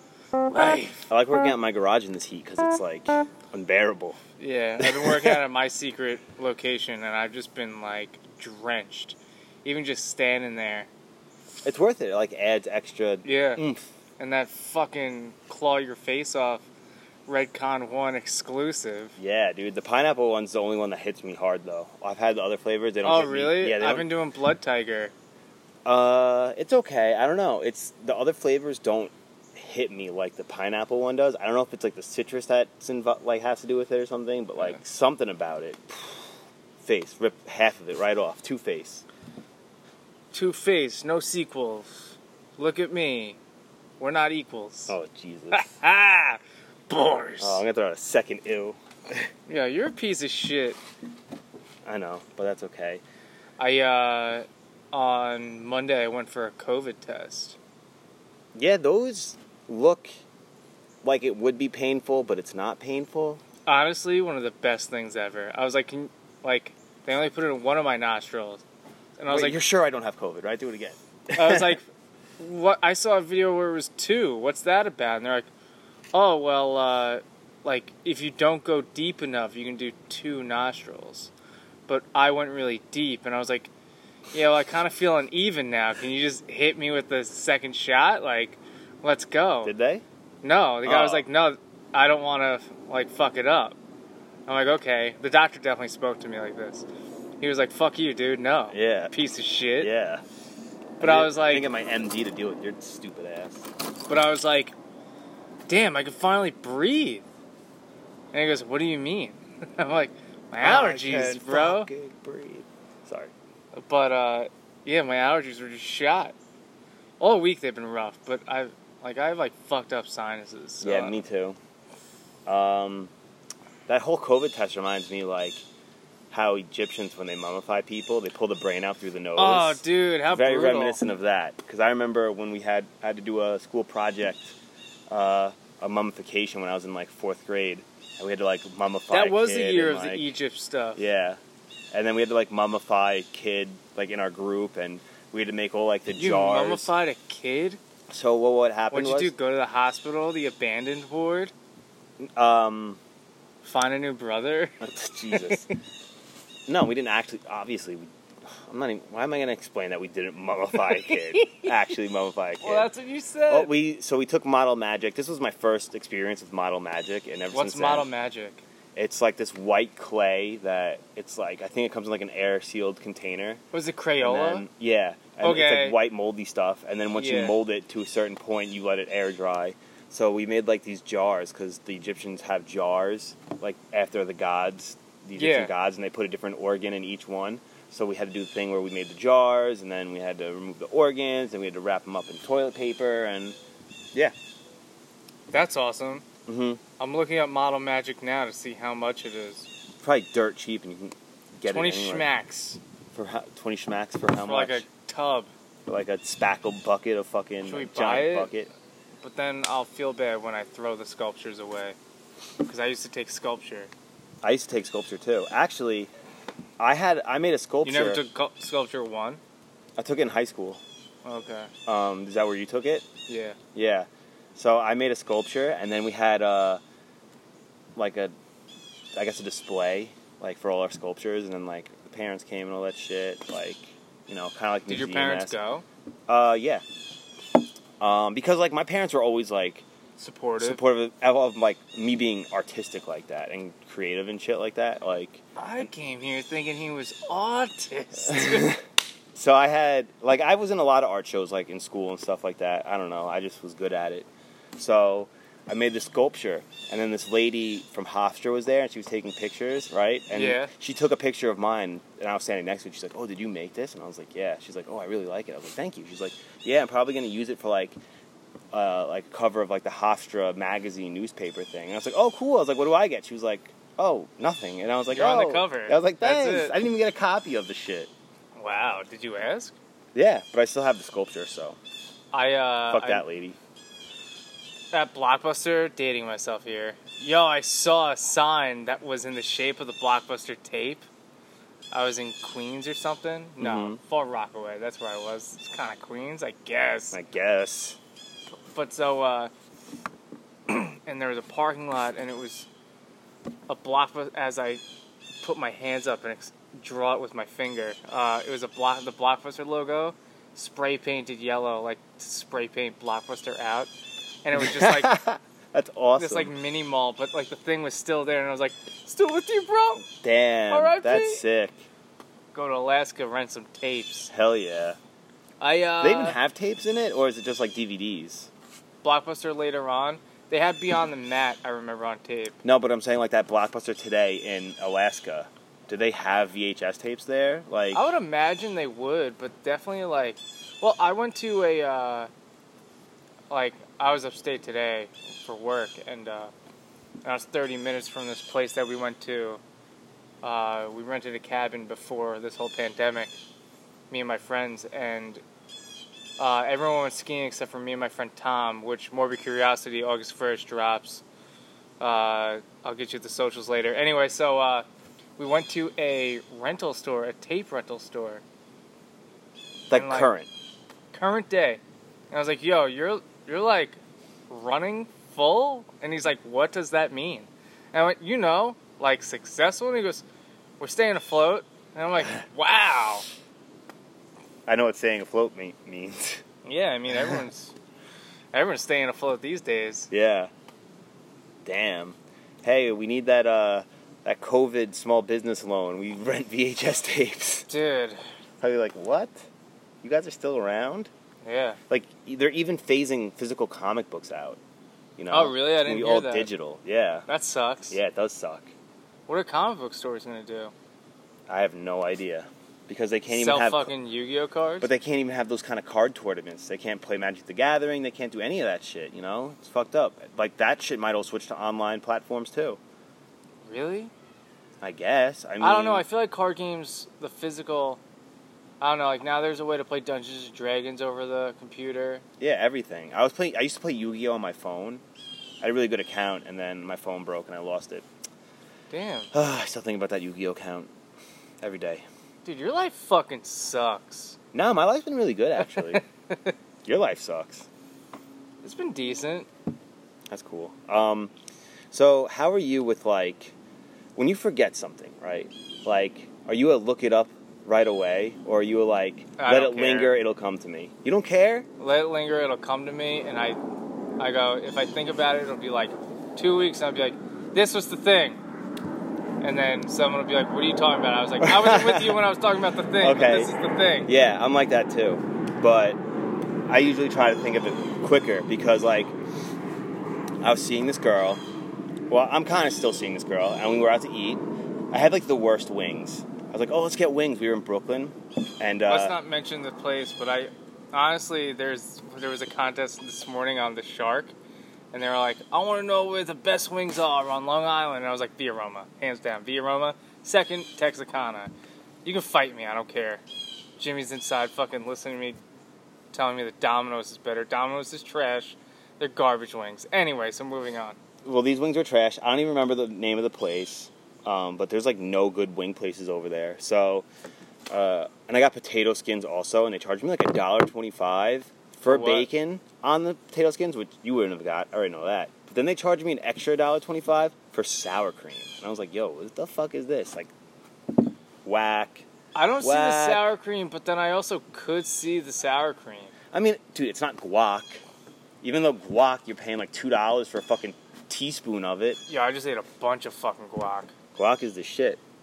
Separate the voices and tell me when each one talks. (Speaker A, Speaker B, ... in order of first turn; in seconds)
Speaker A: 0.5-1.1, 4.4-10.9, 13.2-13.6, 14.2-16.7, 17.3-19.2, 23.0-25.1, 40.3-43.4, 44.0-45.0, 45.5-47.6, 49.5-50.8, 53.6-57.6, 63.6-68.6, 69.2-69.6, 71.3-71.9, 72.4-75.5, 76.1-81.3, 81.9-83.7, 84.3-89.7, 90.4-93.8, 94.5-96.9, 97.4-99.9, 101.0-101.7, 104.1-104.7, 105.7-107.2, 108.3-111.9, 113.8-116.3, 117.2-121.2, 129.4-131.0, 139.1-141.1, 146.2-147.8, 148.9-151.5, 153.6-155.7, 160.7-161.9, 162.6-163.7, 167.5-168.6, 173.7-174.7, 175.4-176.0, 177.2-177.6, 185.4-185.7, 195.5-196.2, 197.0-199.7, 201.7-202.8, 204.4-205.5, 207.7-208.5, 209.2-212.0, 212.6-213.9, 217.8-219.4, 221.2-221.7, 223.3-223.6, 234.9-235.8, 240.2-240.8, 245.6-248.8, 260.3-260.7, 275.1-276.8, 278.6-279.8, 282.3-283.2, 284.9-291.1, 291.9-297.2, 298.7-299.5, 300.7-302.7, 303.7-304.8, 305.4-313.9, 314.4-315.2, 316.2-320.1, 320.7-321.4, 322.5-324.3, 325.6-326.4, 329.0-332.6, 337.9-342.3, 343.5-346.5, 347.2-349.6, 350.4-353.3, 354.1-355.4, 356.4-361.2, 362.0-364.9, 365.4-368.4, 369.9-370.3, 371.1-374.0, 374.5-380.2, 380.8-383.2, 386.6-387.7, 388.5-390.1, 397.7-398.2, 401.4-401.8, 405.3-406.5, 407.3-408.0, 409.3-410.7, 413.3-414.9, 423.7-424.1, 425.6-428.0, 428.8-432.2, 438.9-439.3, 442.4-444.4, 445.6-446.5, 448.6-449.5, 459.4-460.1, 461.8-463.6, 464.2-468.4, 469.4-474.1, 488.9-494.3, 494.9-501.5, 502.1-503.2, 503.8-505.4, 506.1-511.0, 521.9-522.3, 532.4-536.1, 542.1-543.9
Speaker B: 1.1-4.2, 4.8-5.4, 11.6-13.9, 19.2-24.1, 25.9-36.2, 36.8-39.0, 44.9-45.7, 47.4-49.3, 51.9-53.0, 58.5-60.2, 61.0-63.4, 69.3-71.8, 89.6-90.0, 90.8-91.2, 98.7-99.1, 99.8-100.2, 101.0-103.7, 110.6-113.3, 120.8-121.6, 122.5-123.1, 123.9-125.6, 126.3-134.5, 135.1-140.3, 141.0-141.4, 141.9-146.9, 148.1-149.3, 152.2-153.0, 154.8-155.7, 156.7-162.9, 163.5-168.1, 168.9-173.6, 174.2-193.6, 196.5-196.8, 200.0-202.3, 203.1-204.8, 205.9-208.7, 214.4-216.1, 216.8-218.2, 220.0-220.8, 221.9-223.1, 223.7-226.8, 228.0-228.3, 229.2-235.6, 236.3-236.8, 238.0-239.9, 240.6-245.4, 248.3-248.8, 249.3-268.0, 268.7-278.1, 280.1-281.8, 282.9-283.6, 293.6-294.0, 297.1-298.0, 314.6-316.5, 320.2-321.9, 324.3-325.0, 326.0-328.5, 332.6-338.0, 369.9-370.5, 384.7-386.4, 390.1-390.5, 391.6-397.7, 398.6-399.3, 400.0-401.1, 401.9-404.6, 405.2-407.3, 407.9-408.7, 411.5-413.9, 414.8-422.8, 424.8-426.1, 432.4-435.0, 435.6-438.1, 439.3-440.9, 441.6-442.0, 444.5-446.0, 446.9-447.7, 450.3-451.3, 451.9-453.5, 454.2-461.7, 471.4-472.2, 473.0-473.5, 474.1-476.0, 476.7-479.1, 480.4-481.4, 482.1-489.2, 511.2-517.1, 517.7-530.3, 531.4-532.1, 532.6-533.3, 536.3-537.8, 538.4-542.0, 544.1-545.0